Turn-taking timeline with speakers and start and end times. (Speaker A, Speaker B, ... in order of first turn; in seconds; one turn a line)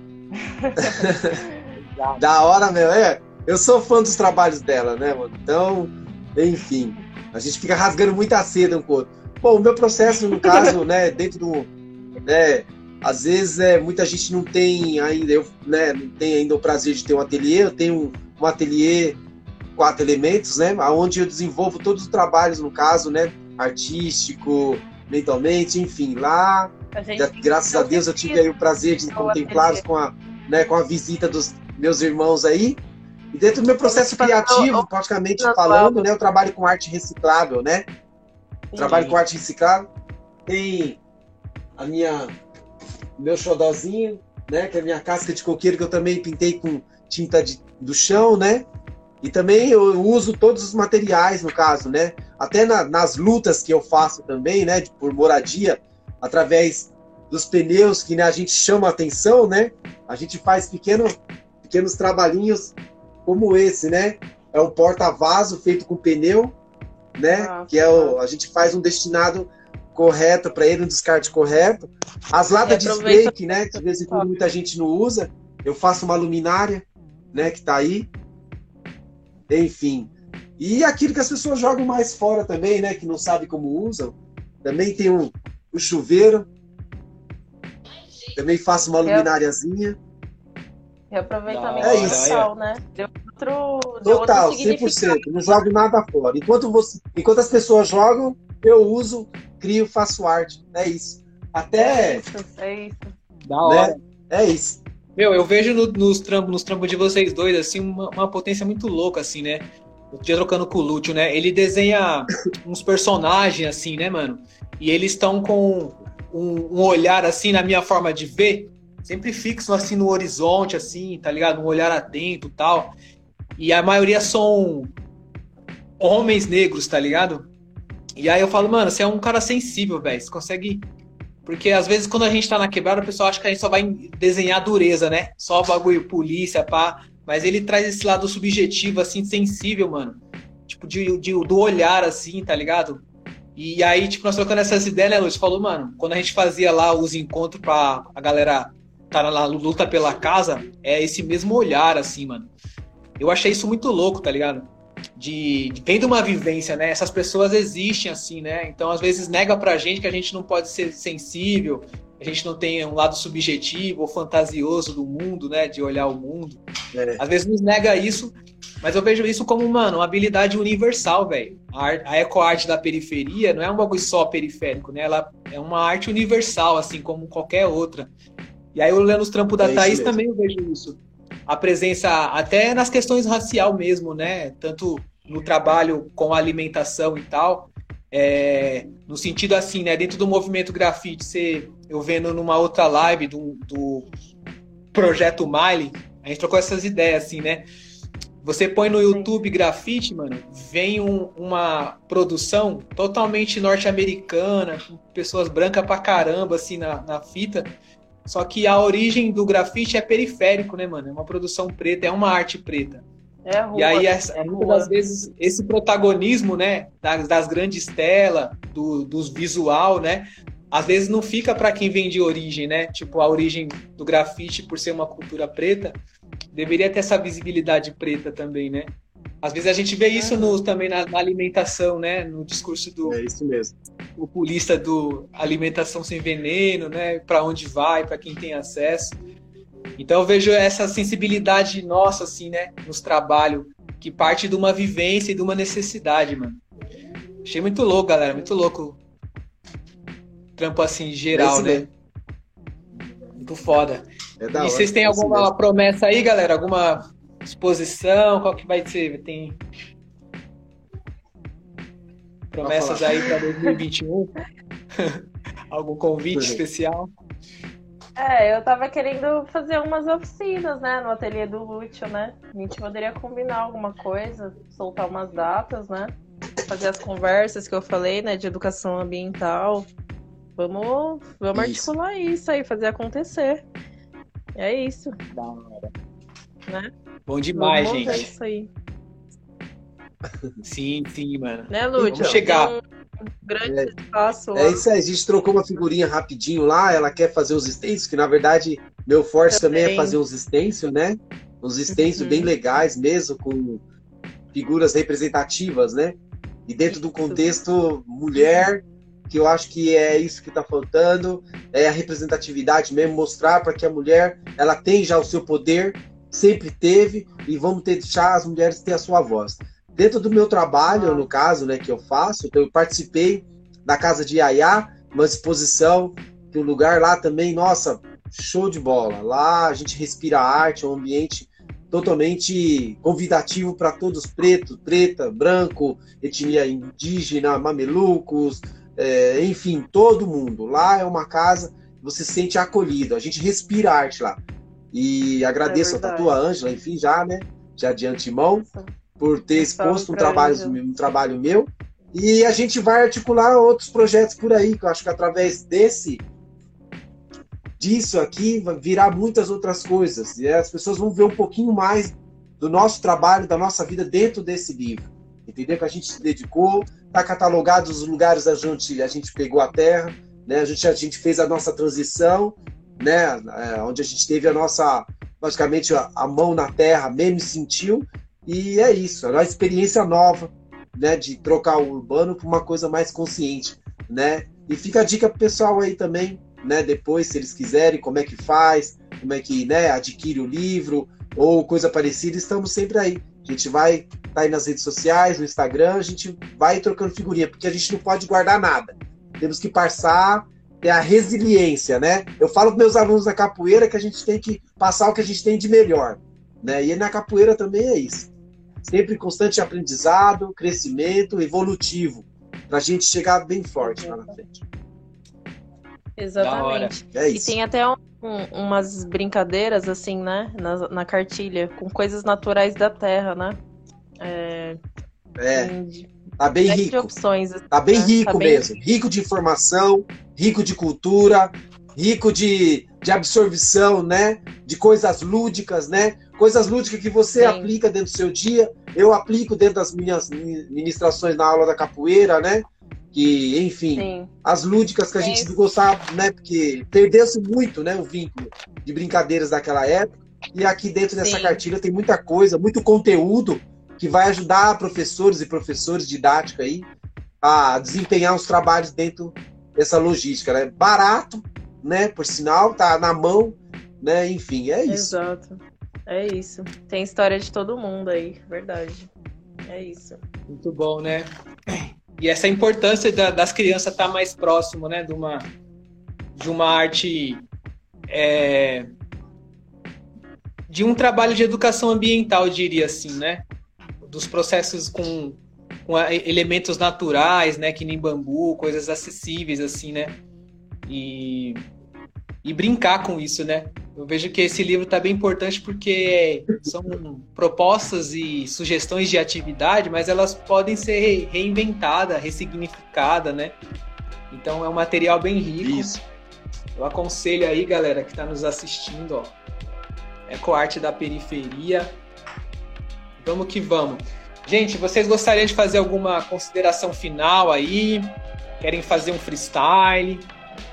Speaker A: 0.4-1.8
Speaker B: 0.8-1.4
Speaker C: 1.8-2.2
Speaker B: 2.2-11.7
Speaker B: 12.2-19.2
Speaker B: 19.8-32.8
Speaker A: 26.9-28.5
Speaker A: 29.0-29.8
Speaker B: 33.3-37.9
Speaker A: 33.8-34.9
Speaker A: 35.4-36.0
Speaker A: 38.7-39.0
Speaker B: 38.7-39.9
Speaker C: 38.8-39.2
Speaker B: 40.5-41.0
Speaker B: 41.8-42.4
Speaker B: 43.2-48.6
Speaker B: 49.2-66.5
Speaker B: 67.2-78.1
Speaker A: 67.3-68.2
Speaker A: 72.6-74.3
Speaker B: 79.5-86.5
Speaker B: 88.3-90.0
Speaker A: 89.0-89.3
Speaker A: 91.1-95.6
Speaker C: 91.5-92.5
Speaker B: 91.8-92.3
Speaker B: 94.0-102.2
Speaker A: 101.8-103.1
Speaker C: 103.5-104.0
Speaker B: 103.6-104.8
Speaker C: 105.2-122.9
Speaker C: 123.6-124.9
Speaker C: 126.0-127.5
Speaker C: 128.2-130.9
Speaker C: 131.4-143.0
Speaker C: 143.6-152.5
Speaker C: 153.2-166.6
Speaker B: 166.9-167.2
Speaker C: 167.2-178.1
Speaker C: 178.7-194.1
Speaker B: 179.6-180.2
Speaker C: 194.9-197.7
Speaker C: 198.4-207.7
Speaker A: 199.1-199.3
Speaker C: 208.2-213.1
Speaker A: 213.4-214.9
Speaker C: 213.7-226.0
Speaker C: 226.5-233.2
Speaker A: 230.1-230.6
Speaker B: 233.0-233.7
Speaker C: 234.2-239.2
Speaker C: 240.0-246.6
Speaker C: 247.4-249.0
Speaker A: 248.3-248.6
Speaker C: 250.6-251.9
Speaker B: 251.3-251.9
Speaker C: 253.4-259.6
Speaker B: 254.4-255.5
Speaker C: 262.5-264.3
Speaker B: 262.6-263.2
Speaker C: 265.7-267.1
Speaker B: 266.3-266.6
Speaker A: 268.2-276.1
Speaker A: 276.7-279.9
Speaker A: 280.6-283.6
Speaker B: 281.5-281.9
Speaker A: 284.6-285.1
Speaker C: 285.3-285.9
Speaker C: 287.3-288.2
Speaker A: 287.6-288.7
Speaker B: 290.2-290.6
Speaker C: 290.6-292.7
Speaker A: 291.7-292.8
Speaker B: 291.9-292.4
Speaker A: 293.4-294.8
Speaker B: 293.6-293.9
Speaker B: 294.6-303.8
Speaker A: 299.5-300.2
Speaker A: 301.9-302.5
Speaker B: 304.5-344.4
Speaker A: 306.9-307.6
Speaker A: 320.9-321.3
Speaker B: 344.9-348.6
Speaker A: 345.6-346.3
Speaker A: 348.6-350.8
Speaker B: 349.2-356.2
Speaker B: 357.8-408.3
Speaker B: 408.8-414.6
Speaker A: 413.8-414.4
Speaker A: 416.2-423.6
Speaker C: 416.4-416.9
Speaker B: 417.1-417.6
Speaker A: 424.2-424.8
Speaker B: 425.4-425.7
Speaker A: 425.5-426.1
Speaker B: 426.4-427.1
Speaker A: 426.7-428.6
Speaker B: 427.7-456.9
Speaker A: 437.4-437.7
Speaker A: 443.9-444.3
Speaker A: 445.2-445.5
Speaker A: 451.1-451.6
Speaker B: 457.4-465.2
Speaker A: 464.9-469.1
Speaker A: 469.7-470.2
Speaker C: 470.5-475.4
Speaker C: 476.4-477.4
Speaker C: 478.1-478.9
Speaker C: 480.7-483.4
Speaker C: 484.0-490.2
Speaker C: 490.9-491.6
Speaker C: 492.4-503.6
Speaker C: 504.3-506.0
Speaker B: 505.6-506.0
Speaker C: 506.8-509.3
Speaker C: 510.3-511.9
Speaker C: 513.2-518.1
Speaker C: 518.6-520.3